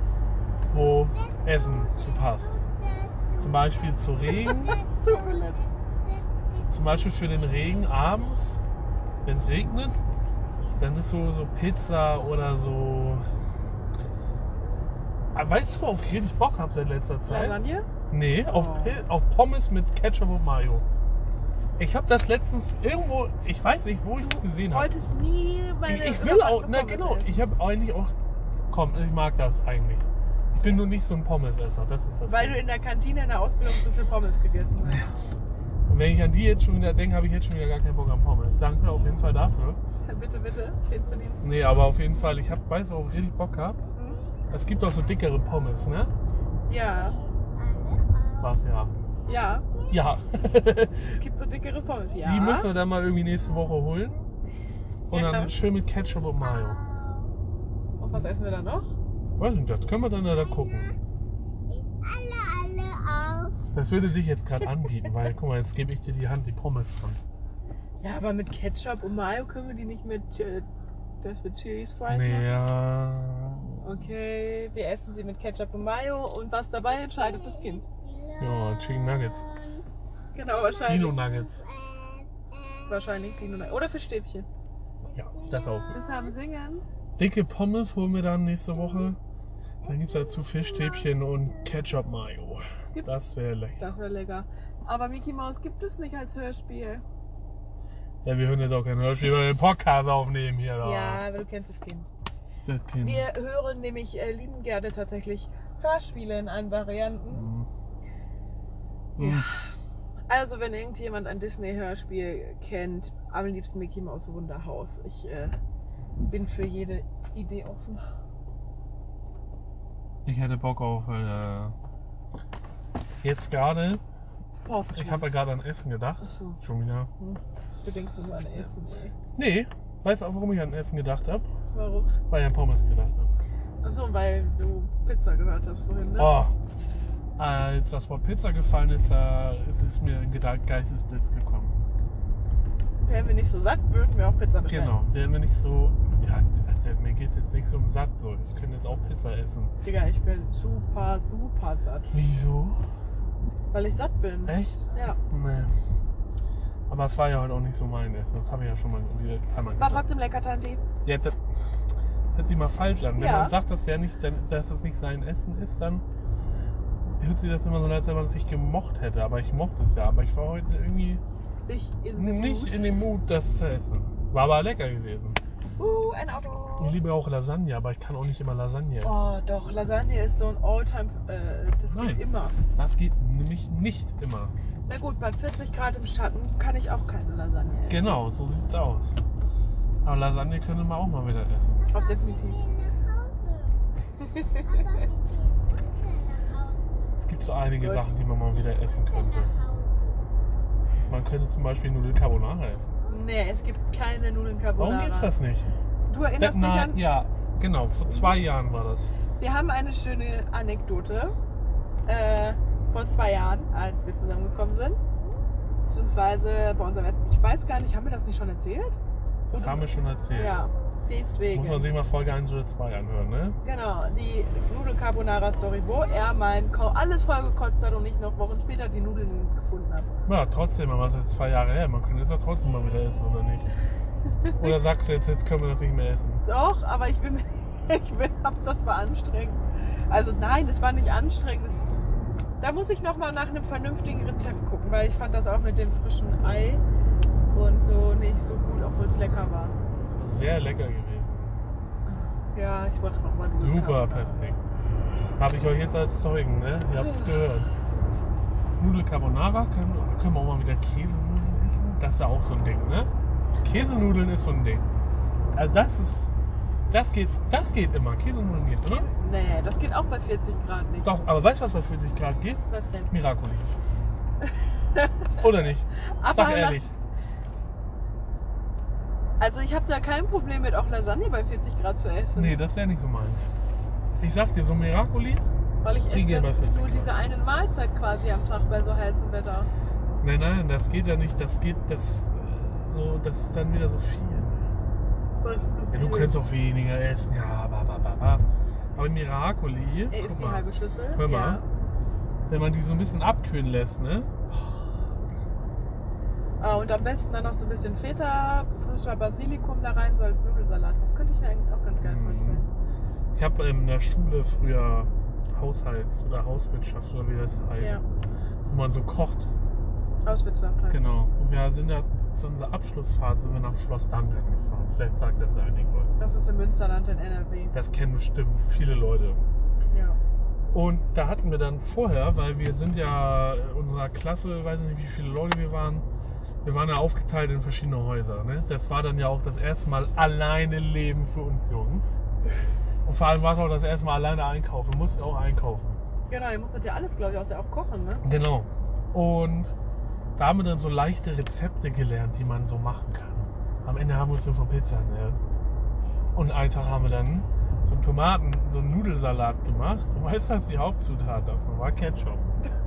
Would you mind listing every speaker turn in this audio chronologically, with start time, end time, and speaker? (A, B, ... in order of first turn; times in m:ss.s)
0:00.7-0:02.6 A
0:01.2-0:06.7 B
0:03.4-0:04.8 A
0:04.3-0:05.6 C
0:06.7-0:08.6 A
0:09.2-0:10.0 A
0:10.4-0:10.8 B
0:10.8-0:13.3 A
0:15.3-0:17.6 A
0:17.3-0:17.9 C
0:18.1-0:20.9 A
0:18.5-0:19.0 C
0:21.8-0:24.9 A
0:24.2-0:27.3 C
0:25.9-0:28.1 A
0:28.7-0:32.6 A
0:32.3-0:35.1 C
0:35.9-0:39.8 A
0:40.0-0:41.4 C
0:41.4-0:43.8 A
0:44.0-0:44.2 C
0:44.5-0:46.1 A
0:46.7-0:47.2 C
0:46.9-0:48.6 B
0:48.4-0:48.9 A
0:49.3-0:49.6 C
0:49.3-0:50.0 B
0:49.9-0:51.1 A
0:51.1-0:52.7 C
0:52.2-0:54.3 A
0:55.1-0:56.8 A
0:55.1-0:55.5 C
0:56.2-0:57.4 B
0:58.0-0:58.9 C
0:59.4-1:01.0 A
1:00.3-1:01.0 B
1:01.7-1:03.6 B
1:03.7-1:07.2 A
1:08.0-1:10.7 C
1:11.2-1:12.5 C
1:12.1-1:14.1 A
1:13.8-1:17.8 C
1:17.0-1:19.9 B
1:18.4-1:19.4 A
1:20.4-1:21.2 C
1:20.5-1:23.4 B
1:20.8-1:21.6 A
1:22.9-1:24.5 C
1:25.1-1:26.3 B
1:25.1-1:26.0 A
1:25.9-1:26.8 C
1:27.2-1:29.2 A
1:29.8-1:31.3 B
1:29.8-1:33.8 A
1:33.8-1:37.0 C
1:38.2-1:41.2 A
1:40.8-1:42.1 C
1:42.7-1:43.3 A
1:43.0-1:47.5 C
1:47.3-1:47.7 A
1:49.2-1:49.5 A
1:49.2-1:49.6 C
1:50.3-1:55.6 C
1:56.2-1:58.1 C
2:00.2-2:01.8 A
2:03.2-2:04.0 A
2:04.6-2:05.3 C
2:05.0-2:07.1 A
2:06.2-2:06.6 C
2:07.2-2:09.1 C
2:09.4-2:11.5 A
2:11.7-2:12.2 C
2:12.3-2:13.3 A
2:13.8-2:16.4 C
2:16.2-2:16.5 A
2:17.4-2:21.7 A
2:23.0-2:25.0 C
2:24.7-2:29.8 A
2:29.8-2:32.1 C
2:32.1-2:32.8 A
2:33.7-2:35.2 C
2:34.5-2:35.7 A
2:36.9-2:40.1 A
2:39.8-2:40.8 C
2:41.0-2:41.4 A
2:42.3-2:46.0 A
2:43.2-2:43.6 C
2:47.2-2:51.2 A
2:51.7-2:52.9 C
2:52.2-2:55.4 A
2:55.8-2:57.0 C
2:56.8-2:59.2 A
2:59.0-3:02.6 C
3:01.9-3:02.2 A
3:02.8-3:04.5 A
3:04.9-3:08.2 C
3:07.9-3:09.2 A
3:10.0-3:11.9 A
3:11.8-3:13.8 B
3:11.9-3:12.6 C
3:14.2-3:15.0 C
3:14.6-3:17.2 B
3:17.2-3:19.5 A
3:17.8-3:18.1 C
3:18.5-3:20.2 B
3:21.1-3:22.9 A
3:23.0-3:23.4 B
3:23.1-3:25.3 C
3:24.8-3:25.7 A
3:26.1-3:27.0 C
3:26.4-3:29.1 A
3:28.1-3:28.4 C
3:29.4-3:31.4 C
3:32.1-3:35.0 C
3:35.9-3:39.0 C
3:39.5-3:40.6 A
3:39.5-3:41.9 C
3:39.9-3:40.7 B
3:41.5-3:43.6 A
3:43.6-3:50.1 C
3:50.3-3:53.7 A
3:54.4-3:54.8 C
3:54.6-3:56.4 A
3:56.4-4:01.9 C
4:02.6-4:06.8 C
4:07.5-4:09.8 C
4:10.2-4:11.6 A
4:12.1-4:14.6 C
4:13.6-4:14.6 A
4:15.4-4:17.7 A
4:18.8-4:24.9 A
4:25.6-4:26.3 A
4:26.9-4:29.1 A
4:28.9-4:31.2 C
4:31.0-4:33.8 A
4:32.7-4:33.1 C
4:34.9-4:35.4 C
4:35.4-4:36.9 A
4:36.2-4:36.8 C
4:39.4-4:42.6 C
4:42.4-4:43.5 A
4:44.2-4:45.5 A
4:45.8-4:49.7 C
4:46.1-4:47.2 A
4:50.2-4:54.8 A
4:55.4-4:56.4 C
4:55.9-4:58.4 A
4:59.0-5:01.6 A
5:00.1-5:01.7 C
5:02.5-5:04.3 A
5:06.6-5:12.7 C
5:12.0-5:12.6 A
5:13.3-5:18.0 A
5:17.8-5:18.0 C
5:18.7-5:19.5 A
5:20.2-5:21.1 C
5:20.9-5:26.1 A
5:26.2-5:27.7 C
5:27.7-5:29.4 A
5:29.9-5:30.2 C
5:30.7-5:36.1 A
5:36.6-5:42.2 A
5:43.0-5:46.0 A
5:46.3-5:48.2 C
5:48.2-5:49.8 A
5:50.4-5:55.4 A
5:56.3-6:02.4 A